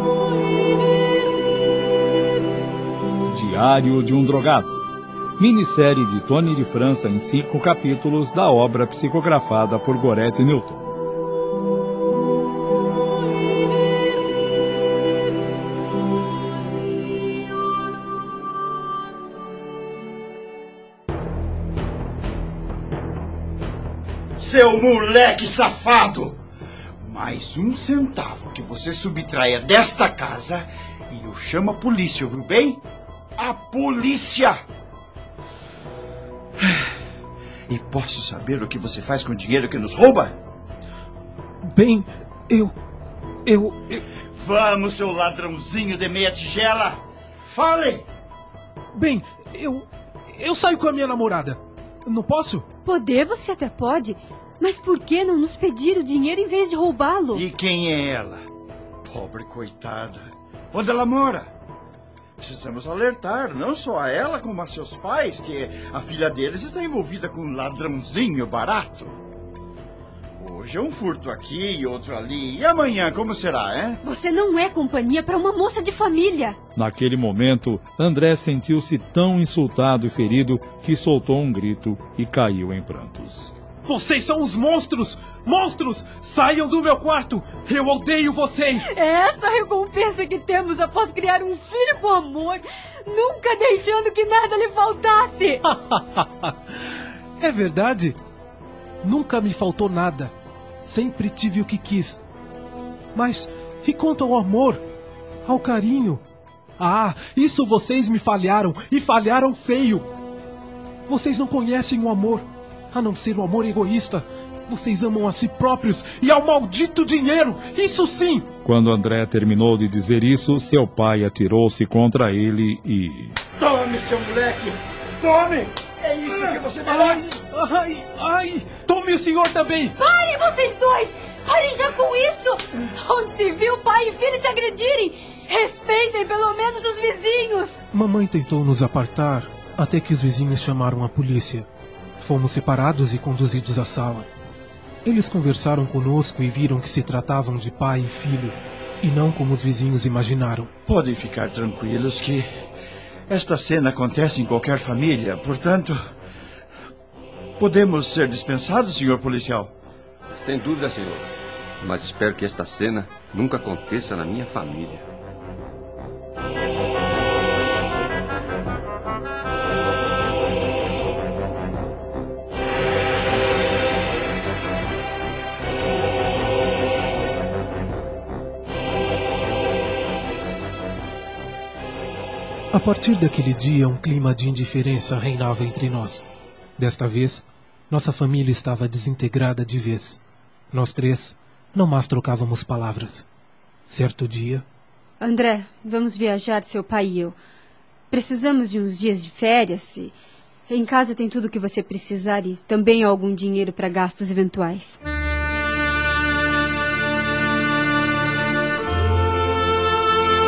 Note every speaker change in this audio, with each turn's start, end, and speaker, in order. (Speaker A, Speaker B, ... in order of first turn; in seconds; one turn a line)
Speaker A: 3.3-10.9
Speaker B: 24.4-26.4
Speaker B: 27.0-32.8
Speaker B: 33.4-34.5
Speaker B: 36.6-36.9
Speaker B: 37.7-40.3
Speaker C: 41.6-42.7
Speaker C: 43.4-44.0
Speaker B: 44.3-48.0
Speaker C: 48.9-52.7
Speaker D: 52.8-57.4
Speaker B: 57.3-58.4
Speaker B: 59.0-61.5
Speaker B: 62.4-69.2
Speaker B: 70.4-74.0
Speaker D: 74.0-76.6
Speaker A: 76.7-83.5
Speaker C: 83.8-88.9
Speaker D: 88.9-95.6
Speaker C: 95.6-96.5
Speaker C: 97.4-98.2
Speaker C: 99.0-102.2
Speaker C: 103.1-104.8
Speaker C: 105.4-106.2
Speaker C: 106.8-110.1
Speaker C: 111.1-118.5
Speaker A: 118.6-123.4
Speaker B: 123.6-127.3
Speaker C: 126.8-130.0
Speaker D: 130.0-137.8
Speaker C: 137.9-141.7
Speaker C: 142.2-144.3
Speaker C: 145.0-150.7
Speaker B: 150.9-152.4
Speaker B: 153.3-156.0
Speaker B: 157.6-159.7
Speaker E: 160.3-161.3
Speaker E: 161.8-165.0
Speaker C: 182.7-186.2
Speaker C: 186.8-190.2
Speaker C: 190.7-193.2
Speaker C: 193.9-194.6
Speaker D: 195.2-197.3
Speaker D: 198.1-200.1
Speaker D: 200.7-205.0